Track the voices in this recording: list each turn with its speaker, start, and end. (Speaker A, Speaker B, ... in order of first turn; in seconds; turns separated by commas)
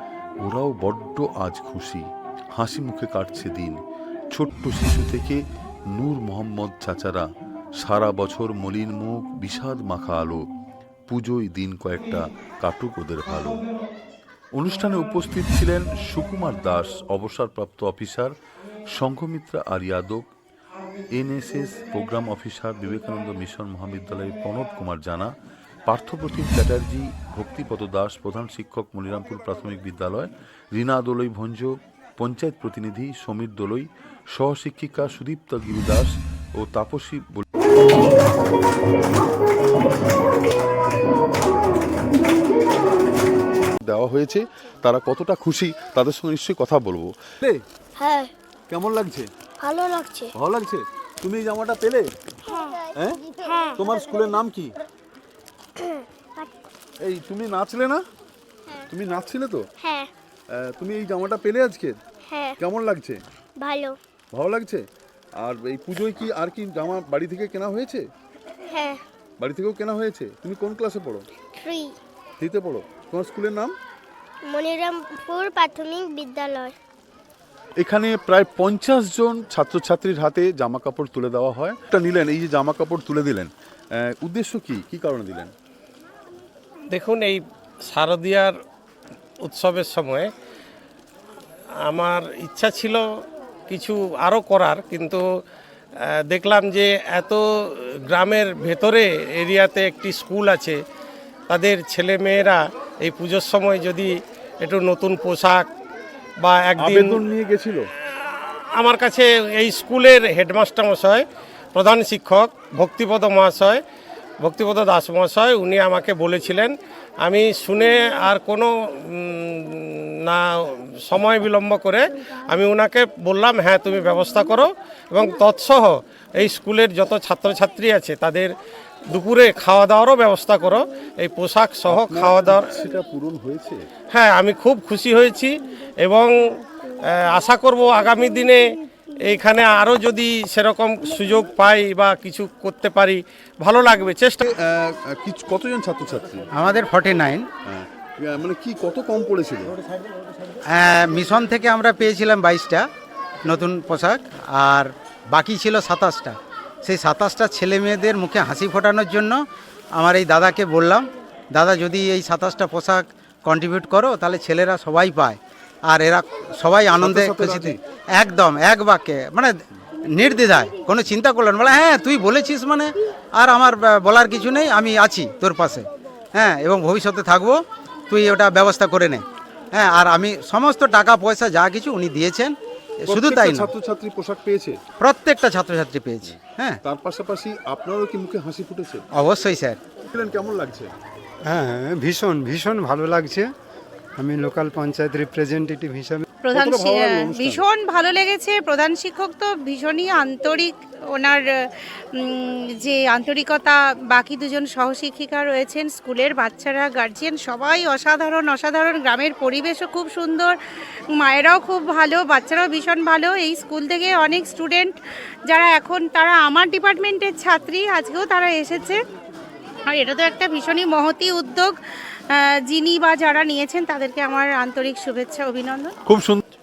Speaker A: 0.4-10.5, Speaker A: 11.1-13.6, Speaker A: 14.5-18.3, Speaker A: 18.9-20.3, Speaker A: 21.1-25.3, Speaker A: 25.9-37.5, Speaker A: 43.8-47.6, Speaker B: 48.0-48.3, Speaker A: 48.7-49.3, Speaker B: 49.6-50.3, Speaker A: 50.4-52.1, Speaker B: 52.5-53.8, Speaker A: 53.8-54.7, Speaker B: 55.8-56.7, Speaker A: 57.0-58.0, Speaker A: 58.9-59.7, Speaker B: 59.8-60.1, Speaker A: 60.5-62.0, Speaker B: 62.3-62.5, Speaker A: 62.6-63.2, Speaker B: 63.6-64.0, Speaker A: 64.3-64.8, Speaker A: 65.4-68.0, Speaker B: 68.7-69.0, Speaker A: 69.4-71.3, Speaker B: 71.6-72.0, Speaker A: 72.4-73.7, Speaker B: 74.4-76.8, Speaker A: 77.8-85.5, Speaker C: 86.9-88.6, Speaker C: 89.4-90.3, Speaker C: 91.9-93.0, Speaker C: 93.7-95.2, Speaker C: 96.0-100.8, Speaker C: 101.5-105.7, Speaker C: 106.4-107.2, Speaker A: 106.8-107.9, Speaker C: 108.1-111.2, Speaker C: 111.8-113.8, Speaker C: 114.4-128.5, Speaker C: 129.1-132.8, Speaker A: 131.9-133.9, Speaker C: 134.1-136.3, Speaker C: 137.2-138.6, Speaker C: 139.2-144.5, Speaker A: 144.4-146.5, Speaker D: 146.6-147.5, Speaker A: 147.7-149.8, Speaker D: 150.7-152.9, Speaker D: 153.5-159.4, Speaker D: 160.0-169.5, Speaker A: 167.0-167.8, Speaker D: 170.2-183.7, Speaker A: 183.1-184.8, Speaker D: 185.0-186.8, Speaker A: 186.2-189.0, Speaker D: 189.2-189.8, Speaker A: 190.1-190.9, Speaker E: 191.4-193.5, Speaker E: 194.2-196.2, Speaker F: 196.4-210.6, Speaker A: 196.6-197.6, Speaker F: 211.2-215.0, Speaker F: 215.5-219.0, Speaker F: 219.9-221.8, Speaker F: 222.3-225.9, Speaker A: 226.1-226.4